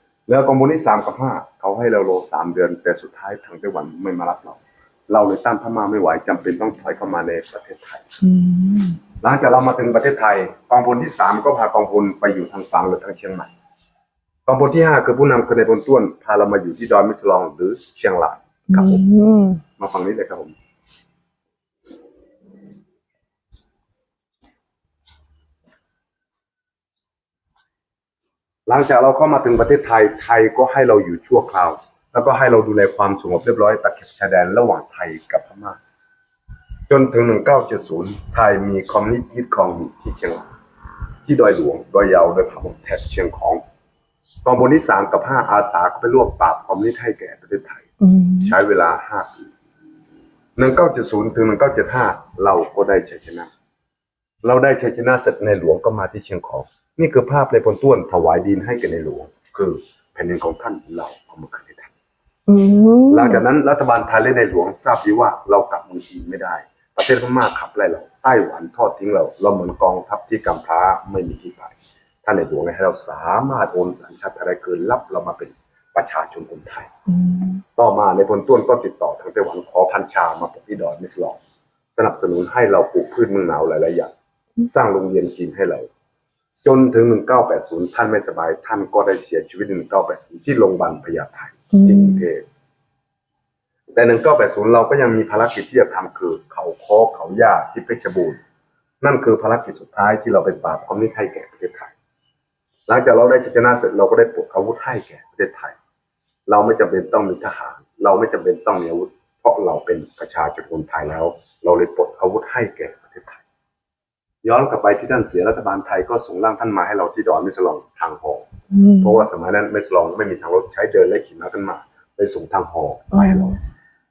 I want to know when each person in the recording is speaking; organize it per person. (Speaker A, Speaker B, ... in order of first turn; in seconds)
Speaker A: 0.3-8.1, 9.2-13.5, 14.5-19.0, 19.8-20.6, 28.7-35.8, 36.9-40.5, 41.2-43.6, 44.5-47.9, 48.4-49.5, 50.6-53.5, 54.4-61.9, 63.1-76.9, 77.8-81.4, 82.0-85.9, 86.6-92.5, 93.9-98.4, 99.0-101.9, 102.9-105.8, 106.5-113.4, 114.4-118.5, 119.0-123.6
Speaker B: 8.2-9.0, 18.7-19.6, 48.0-48.5, 62.5-63.4, 77.1-77.6, 91.7-92.2, 118.7-119.2, 123.1-123.5